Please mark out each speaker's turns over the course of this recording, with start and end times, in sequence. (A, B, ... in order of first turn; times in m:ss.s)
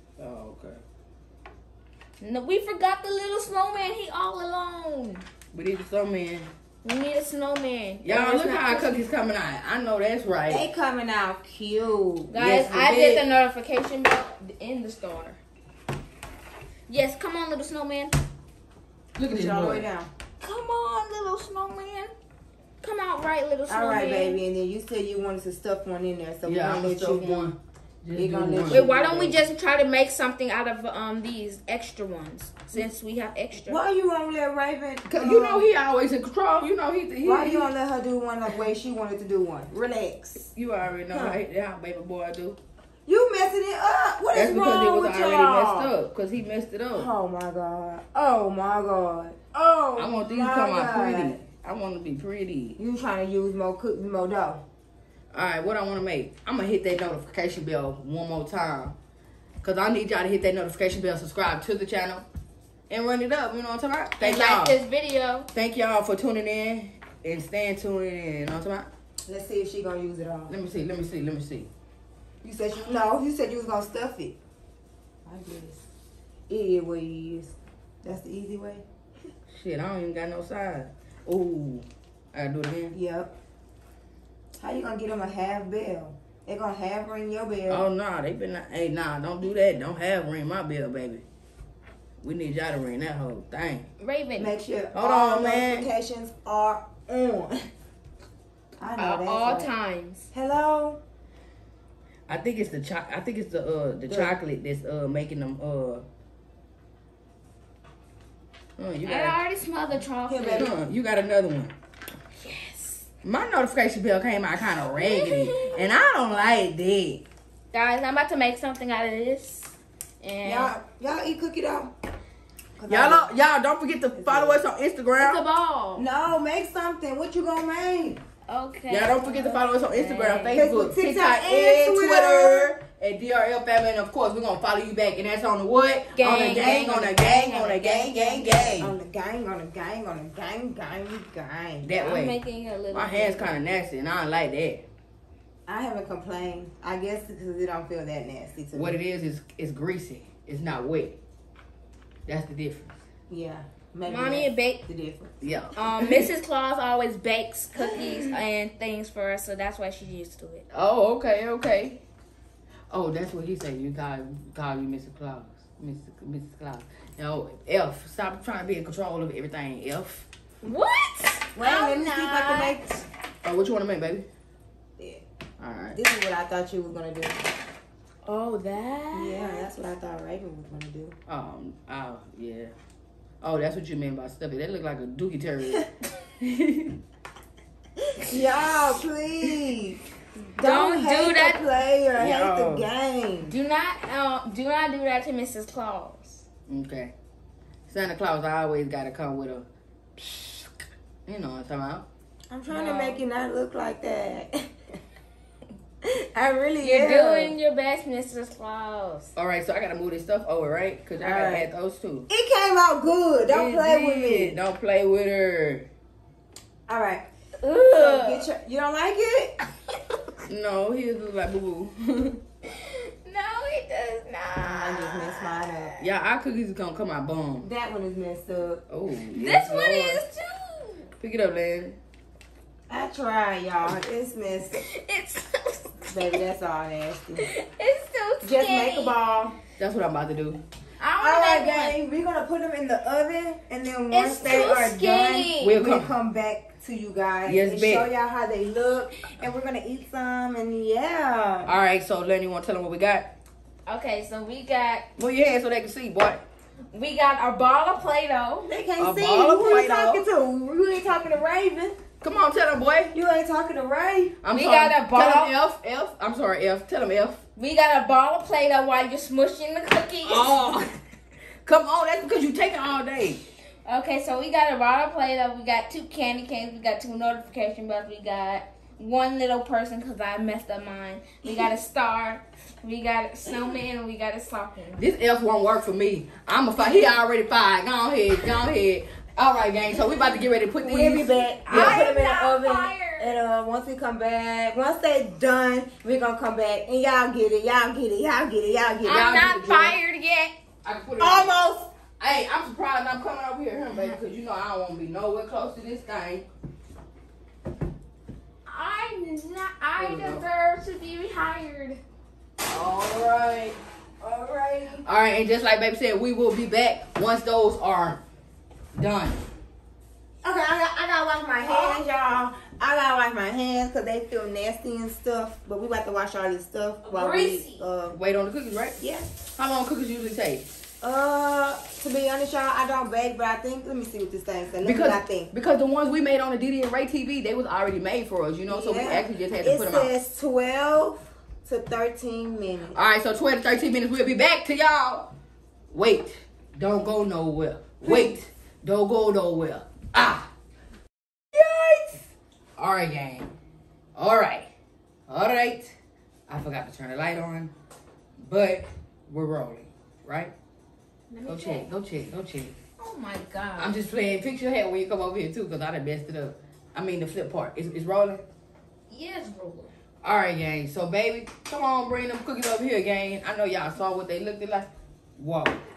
0:00.2-0:00.8 A
0:02.2-0:05.2 B
0:05.5-0:06.5 A
0:06.8-0:09.1 B
0:08.0-0:10.7 A
0:10.5-0:12.3 C
0:12.3-0:15.4 B
0:12.4-0:13.2 A
0:16.9-0:18.2 B
0:19.2-0:19.9 A
0:19.3-0:20.1 C
0:20.4-0:22.1 B
0:22.8-0:24.4 B
0:23.7-0:27.5 C
0:26.4-0:28.9 A
0:28.1-0:29.4 C
0:28.7-0:33.8 B
0:33.7-0:35.7 C
0:35.0-0:37.7 A
0:37.2-0:40.5 C
0:40.5-0:42.6 A
0:41.1-0:41.4 C
0:43.1-0:45.9 C
0:44.3-0:47.1 A
0:46.9-0:51.4 C
0:50.0-0:52.8 A
0:52.8-0:54.6 C
0:55.3-0:59.0 A
0:59.6-1:02.2 A
1:02.9-1:04.8 A
1:04.2-1:05.5 B
1:05.5-1:08.9 A
1:09.2-1:10.6 C
1:10.5-1:11.7 A
1:12.4-1:14.4 C
1:15.2-1:15.8 C
1:16.5-1:18.8 C
1:19.5-1:23.0 A
1:22.9-1:23.3 C
1:24.6-1:27.9 C
1:27.7-1:31.2 A
1:32.2-1:33.9 A
1:34.0-1:34.6 B
1:34.4-1:37.7 C
1:34.9-1:35.9 A
1:38.8-1:39.7 C
1:39.0-1:40.3 B
1:40.3-1:41.0 C
1:42.3-1:46.0 A
1:44.1-1:44.4 C
1:48.8-1:49.4 A
1:49.0-1:50.7 B
1:50.2-1:50.8 C
1:50.5-1:51.7 A
1:52.4-1:53.1 B
1:53.2-1:57.2 A
1:54.9-1:55.8 B
1:57.7-2:00.8 B
2:00.4-2:01.9 C
2:02.8-2:03.3 C
2:02.9-2:05.4 A
2:04.1-2:04.6 C
2:05.2-2:06.0 B
2:06.0-2:08.2 C
2:08.5-2:10.6 B
2:08.9-2:19.0 A
2:10.5-2:12.7 C
2:16.1-2:18.8 B
2:17.9-2:21.9 C
2:21.8-2:22.4 A
2:22.0-2:23.6 B
2:22.9-2:24.9 A
2:25.6-2:29.0 C
2:28.7-2:31.2 A
2:32.3-2:33.0 A
2:33.3-2:35.4 C
2:34.1-2:34.8 B
2:35.4-2:36.3 A
2:35.8-2:40.6 B
2:40.7-2:42.0 A
2:42.9-2:50.3 A
2:50.6-2:52.8 B
2:51.6-2:53.0 C
2:53.4-2:54.2 A
2:55.0-2:55.2 C
2:55.6-2:56.0 A
2:56.0-2:57.4 C
2:58.2-2:59.6 B
2:59.1-3:01.1 C
3:01.3-3:02.7 A
3:03.4-3:07.0 A
3:08.2-3:10.0 C
3:10.6-3:11.6 B
3:10.6-3:13.5 C
3:12.1-3:12.9 A
3:13.5-3:16.4 B
3:16.7-3:17.1 A
3:17.9-3:20.7 A
3:21.3-3:22.0 A
3:22.5-3:24.7 C
3:22.7-3:23.2 B
3:26.1-3:27.5 C
3:26.8-3:29.3 B
3:29.4-3:32.3 A
3:31.2-3:31.7 C
3:32.3-3:34.6 C
3:33.5-3:35.9 A
3:36.9-3:37.2 C
3:37.6-3:38.5 B
3:37.9-3:39.6 C
3:40.5-3:42.4 A
3:42.7-3:45.9 B
3:44.6-3:46.0 C
3:46.0-3:47.7 A
3:47.6-3:48.8 C
3:48.9-3:50.2 A
3:49.3-3:51.1 B
3:51.2-3:52.0 A
3:52.9-3:54.8 C
3:54.8-3:56.4 B
3:56.1-3:57.5 C
3:57.4-3:59.1 B
3:58.4-3:59.6 C
3:59.8-4:00.6 A
4:01.0-4:02.0 B
4:01.2-4:11.7 C
4:04.1-4:05.8 B
4:05.6-4:06.1 A
4:07.4-4:08.1 A
4:11.6-4:13.3 A
4:13.9-4:15.1 B
4:15.2-4:16.4 A
4:16.9-4:18.7 B
4:18.7-4:22.0 C
4:19.0-4:20.3 A
4:22.2-4:23.1 A
4:23.1-4:24.4 C
4:24.4-4:27.4 A
4:24.5-4:25.5 B
4:27.6-4:30.8 B
4:30.2-4:30.9 A
4:31.6-4:33.4 A
4:33.8-4:45.0 B
4:41.4-4:41.8 C
4:45.0-4:52.1 A
4:50.8-4:59.3 C
4:51.7-4:53.4 B
4:59.0-5:00.5 B
4:59.1-5:00.0 A
5:00.8-5:01.5 A
5:01.2-5:01.9 C
5:02.2-5:06.5 A
5:08.6-5:12.0 B
5:10.0-5:10.5 A
5:12.6-5:13.8 A
5:14.2-5:15.0 C
5:15.0-5:18.2 A
5:19.0-5:19.4 A
5:20.4-5:28.2 C
5:21.6-5:22.0 B
5:27.0-5:27.8 B
5:28.1-5:29.0 A
5:29.0-5:29.3 C
5:29.6-5:30.6 A
5:31.0-5:35.5 C
5:34.8-5:40.1 A
5:38.7-5:43.0 C
5:42.9-5:45.3 A
5:45.9-5:50.5 A
5:48.0-5:48.4 C
5:51.5-5:53.5 A
5:54.2-5:54.7 A
5:55.3-5:55.9 A
5:56.5-5:57.7 A
5:58.4-6:00.5 A
6:01.3-6:01.9 B
6:01.4-6:02.8 A
6:03.0-6:04.0 B
6:03.8-6:08.4 A
6:09.1-6:09.9 B
6:10.2-6:15.8 A